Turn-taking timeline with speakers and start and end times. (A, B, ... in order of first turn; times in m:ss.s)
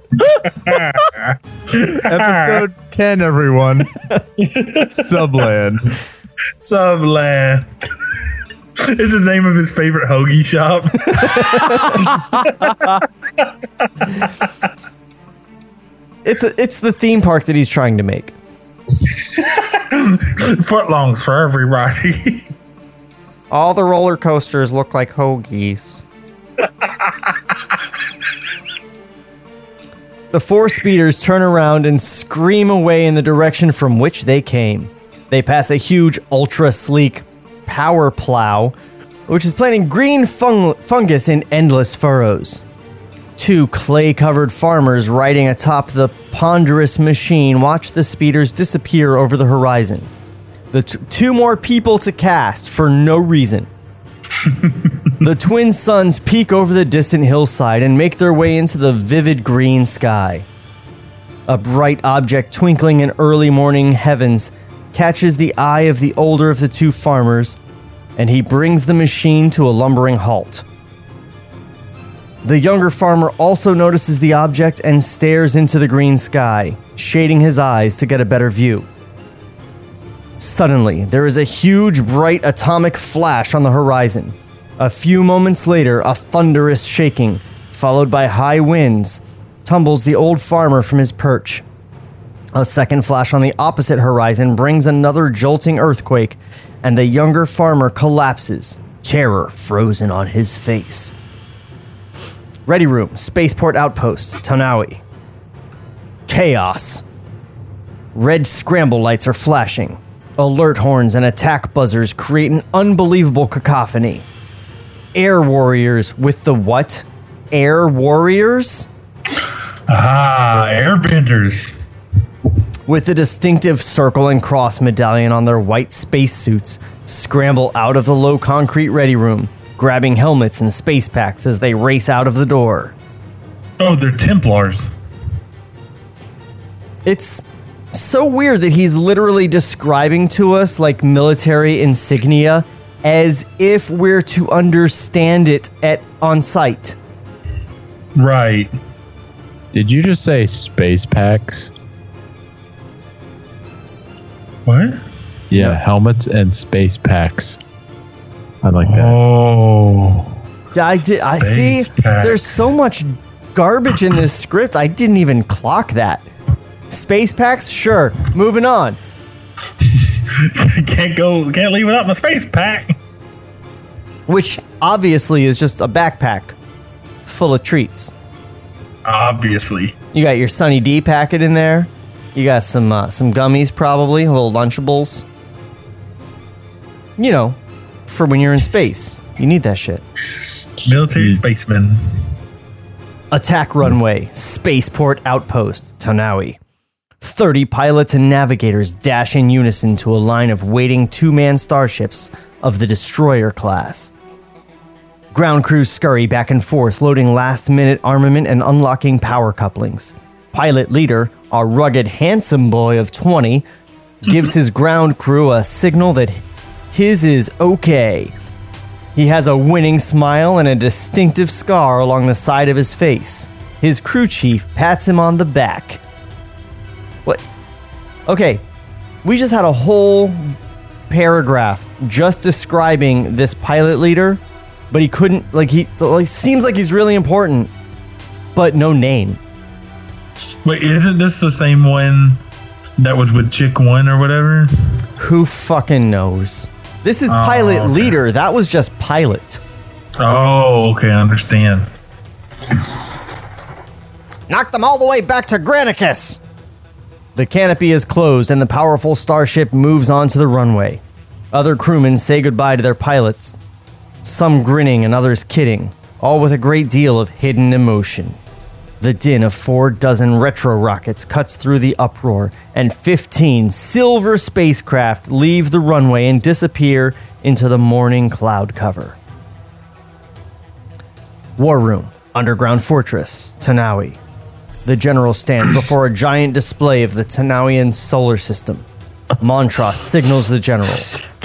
0:00.4-0:02.6 A
0:01.9-0:03.9 B
0:04.4-0:05.5 A
0:05.0-0:06.0 B
0:06.6-0:07.7 A
0:08.8-0:14.7 A
0:11.8-0:13.0 B
0:16.2-0:18.3 C
0:18.9-0:22.5 A
0:23.5-0:26.0 C
0:26.6-0:27.3 A
0:30.3-0:38.7 C
0:39.3-0:42.6 C
0:43.4-0:50.1 C
0:50.7-0:53.7 C
0:54.4-0:54.9 A
0:55.2-1:00.4 C
1:01.5-1:07.6 C
1:08.2-1:10.6 C
1:12.4-1:18.9 C
1:20.4-1:31.6 C
1:32.5-1:41.1 C
1:42.6-1:45.0 C
1:46.3-1:47.0 C
1:48.1-1:54.2 C
1:55.1-1:58.9 C
1:59.9-2:01.8 A
2:02.9-2:12.9 C
2:13.8-2:14.9 A
2:17.0-2:27.0 C
2:28.2-2:28.7 A
2:29.7-2:31.7 B
2:34.6-2:35.0 A
2:35.5-2:37.6 B
2:35.5-2:35.8 C
2:38.6-2:39.2 B
2:38.8-2:40.4 A
2:40.7-2:46.2 C
2:41.2-2:42.6 A
2:46.9-2:49.0 C
2:49.8-2:52.9 A
2:54.3-2:56.6 C
2:57.2-2:58.1 C
2:59.0-2:59.9 A
3:00.1-3:05.2 C
3:07.2-3:10.0 C
3:10.8-3:12.0 A
3:13.3-3:16.6 C
3:17.2-3:24.1 C
3:25.3-3:33.6 C
3:34.2-3:36.4 C
3:36.9-3:38.3 C
3:39.2-3:46.0 C
3:48.3-3:48.6 C
3:49.2-3:50.6 C
3:51.1-3:57.7 C
3:58.6-3:59.4 C
4:00.6-4:02.4 A
4:03.0-4:04.7 A
4:05.2-4:09.6 C
4:07.3-4:08.2 A
4:10.2-4:11.9 A
4:14.5-4:16.4 C
4:17.4-4:21.0 C
4:21.5-4:23.6 C
4:24.2-4:28.4 C
4:29.0-4:39.2 C
4:41.6-4:44.2 C
4:44.8-4:48.8 C
4:49.4-4:51.1 C